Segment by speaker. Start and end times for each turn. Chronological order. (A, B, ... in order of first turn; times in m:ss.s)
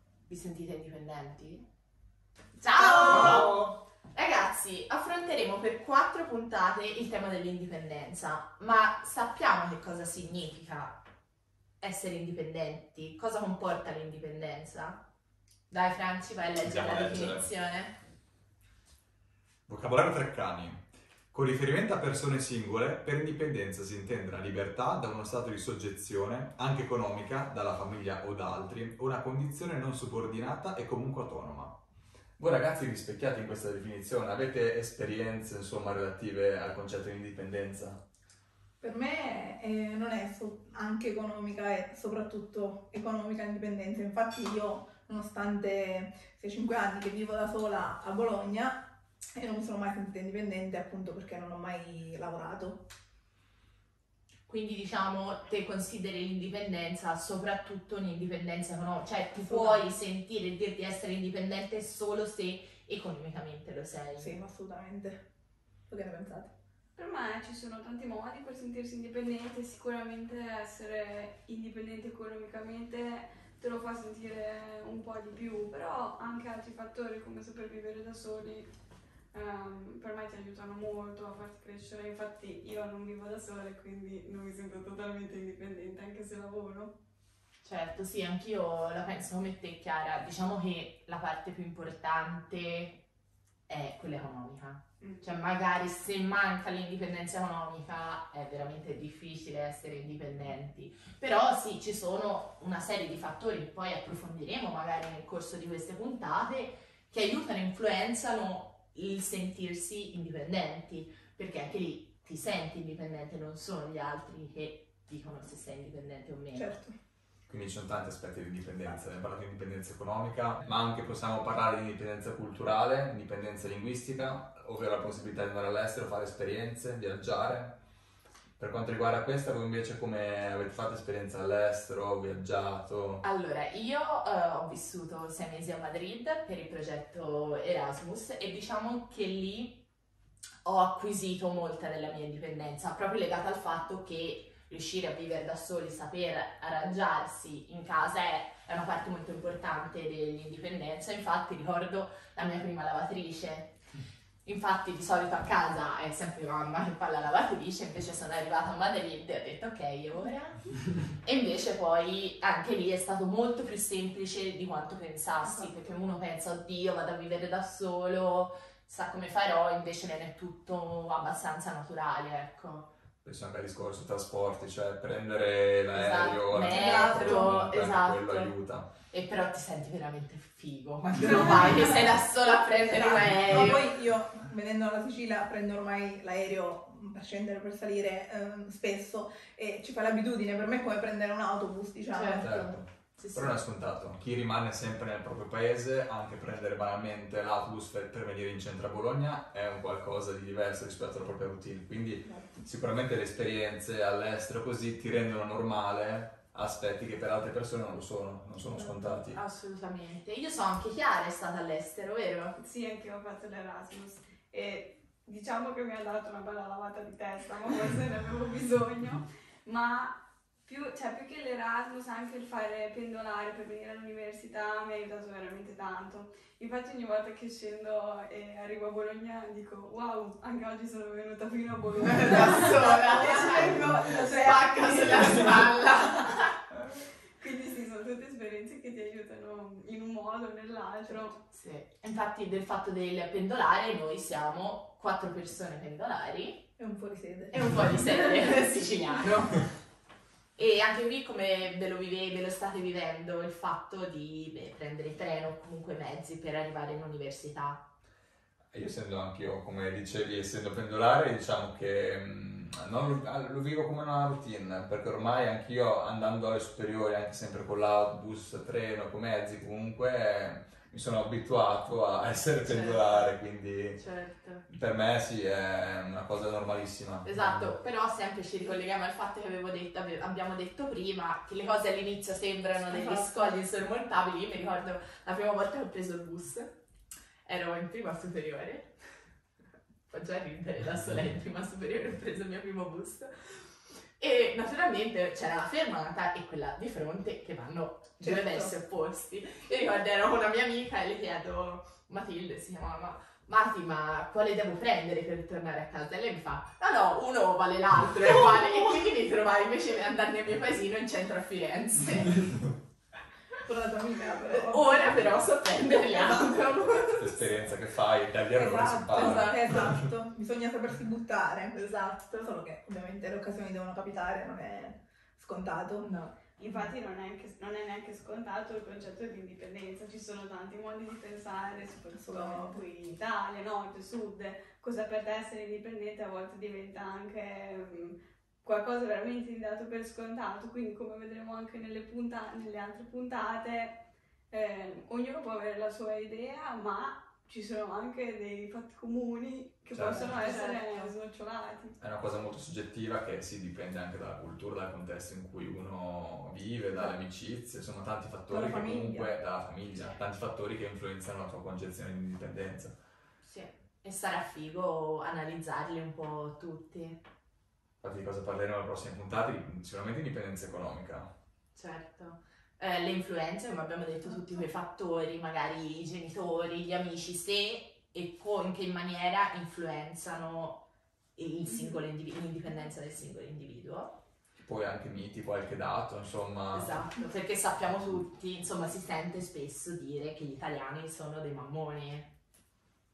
0:00.3-0:01.6 A
0:02.6-0:03.6 A
0:02.8-0:03.8 B
0:04.1-0:11.0 A
0:11.8-0:15.0 A
0:15.7-0:18.0 A
0:16.6-0:17.5 B
0:19.7-0:31.8 B
0:32.4-0:38.0 B
0:38.8-0:48.8 C
0:49.4-0:52.8 C
0:54.5-1:04.3 A
0:59.4-0:59.8 C
1:04.2-1:05.2 C
1:05.9-1:06.5 C
1:07.0-1:18.7 D
1:19.3-1:26.9 D
1:27.6-1:33.0 A
1:33.7-1:56.8 A
1:35.0-1:35.3 D
1:56.5-1:56.9 C
1:57.5-2:07.8 B
2:08.6-2:13.2 B
2:13.2-2:19.8 A
2:20.6-2:33.8 A
2:34.5-2:52.9 A
2:53.2-2:58.9 B
2:55.9-3:03.9 A
2:56.7-2:57.7 C
3:02.8-3:12.6 C
3:12.1-3:13.6 A
3:12.4-3:29.4 B
3:22.3-3:22.6 C
3:29.3-3:32.6 A
3:32.6-3:55.7 D
3:52.0-3:56.5 A
3:57.4-4:01.4 D
4:01.4-4:06.7 A
4:06.8-4:07.6 C
4:07.5-4:09.7 A
4:10.6-4:17.9 A
4:18.7-4:34.0 B
4:32.6-4:33.3 A
4:34.0-4:34.6 A
4:34.7-4:37.7 B
4:37.2-4:46.7 A
4:42.9-4:43.5 C
4:47.5-4:49.0 A
4:50.1-5:12.7 A
4:58.2-4:58.7 C
5:13.7-5:15.2 C
5:14.4-5:17.5 A
5:17.1-5:19.8 B
5:18.5-5:26.1 C
5:19.2-5:19.8 A
5:21.8-5:22.5 A
5:26.0-5:26.9 A
5:26.6-5:44.0 D
5:32.1-5:32.8 C
5:44.5-5:52.0 D
5:49.9-5:50.3 B
5:50.1-5:50.8 C
5:50.2-5:51.1 A
5:52.0-6:03.0 B
5:58.5-5:59.4 C
6:03.4-6:07.2 A
6:08.0-6:11.3 B
6:11.8-6:20.8 A
6:14.3-6:14.6 C
6:21.4-6:24.2 A
6:21.7-6:22.0 C
6:24.6-6:27.0 B
6:26.7-6:32.3 A